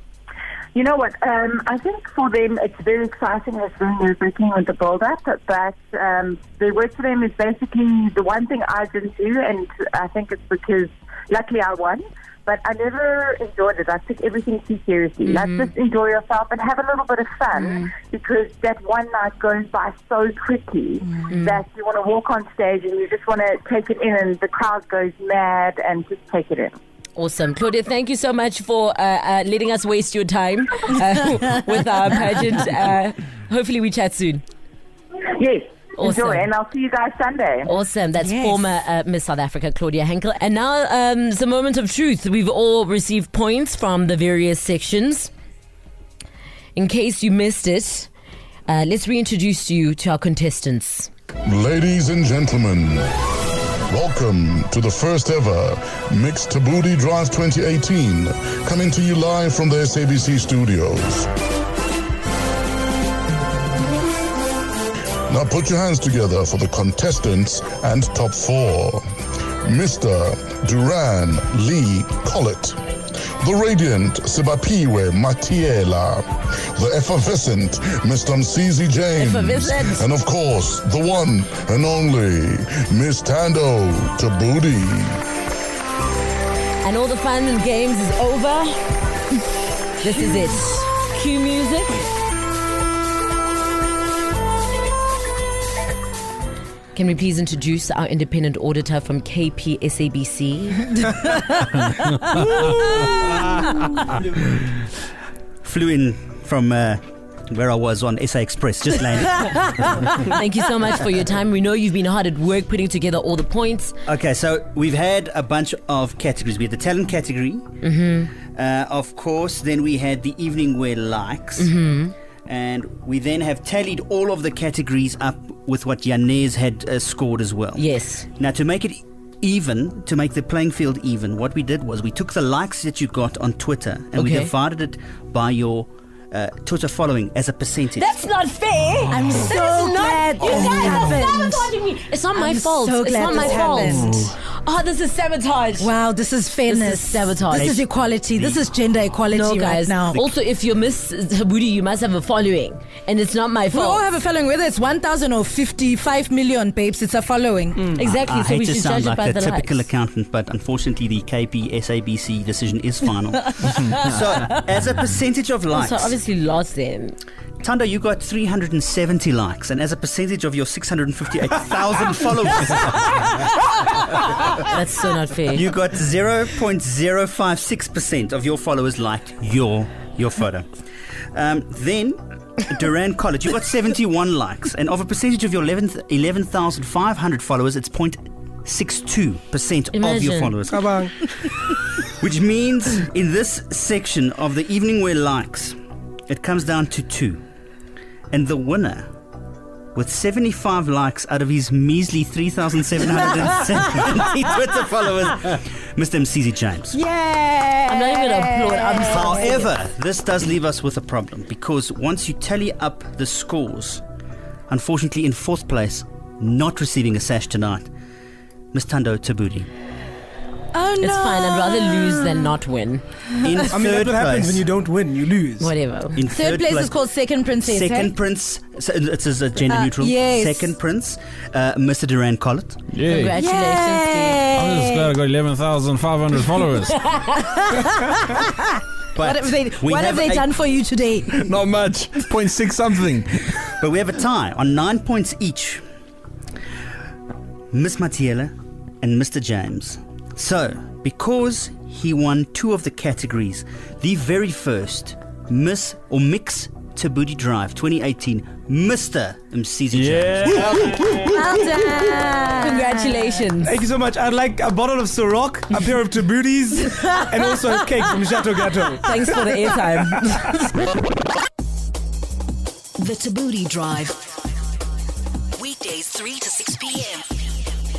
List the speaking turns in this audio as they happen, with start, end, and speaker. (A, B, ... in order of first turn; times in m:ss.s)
0:00.7-0:26.8 A
0:15.2-0:15.7 B
0:17.5-0:17.8 B
0:21.3-0:21.6 B
0:27.2-0:34.4 B
0:35.2-0:37.7 A
0:36.0-0:36.5 B
0:37.7-0:45.3 B
0:38.2-0:38.6 C
0:46.7-0:48.1 B
0:48.7-0:51.1 B
0:51.4-0:53.0 D
0:53.9-1:01.3 D
1:05.3-1:09.0 D
1:09.6-1:12.8 D
1:13.4-1:25.2 D
1:19.2-1:20.0 B
1:26.8-1:28.8 B
1:30.0-1:32.0 B
1:36.9-1:41.0 B
1:42.7-1:43.1 C
1:45.6-1:49.9 E
1:50.2-1:53.9 B
1:54.0-1:57.7 E
1:57.8-1:58.3 B
1:58.4-2:01.7 E
2:01.6-2:02.1 B
2:02.5-2:18.1 E
2:07.8-2:08.3 B
2:14.2-2:14.5 B
2:18.0-2:25.9 B
2:19.1-2:21.7 C
2:22.3-2:24.3 C
2:25.8-2:30.3 C
2:26.7-2:27.8 B
2:27.5-2:28.7 E
2:29.3-2:34.0 B
2:33.7-2:38.0 C
2:38.0-2:39.9 B
2:38.0-2:46.2 E
2:45.7-2:47.2 B
2:47.6-2:53.4 E
2:54.6-2:55.6 B
2:55.5-3:00.7 E
3:01.3-3:15.8 E
3:09.9-3:10.5 B
3:10.7-3:11.1 F
3:16.3-3:17.4 E
3:18.3-3:19.1 E
3:19.9-3:27.0 E
3:26.9-3:29.6 C
3:27.9-3:29.7 B
3:29.1-3:34.0 E
3:34.7-3:37.9 E
3:38.7-3:39.7 E
3:40.7-3:42.5 C
3:41.0-3:43.0 B
3:43.4-3:44.6 E
3:43.7-3:45.7 F
3:45.6-3:46.2 B
3:46.2-3:47.0 E
3:46.2-3:48.1 C
3:47.5-3:52.8 E
3:49.7-3:50.8 C
3:52.9-3:53.4 G
3:53.1-3:54.4 B
3:53.2-3:55.2 C
3:54.5-3:57.1 G
3:57.2-4:01.4 C
3:59.1-4:00.5 E
4:01.5-4:03.4 G
4:03.8-4:05.8 E
4:07.7-4:20.8 E
4:19.9-4:21.3 G
4:20.7-4:21.3 F
4:21.3-4:23.1 C
4:22.6-4:23.7 B
4:23.6-4:29.7 F
4:29.0-4:30.7 B
4:33.0-4:34.2 H
4:35.6-4:37.3 H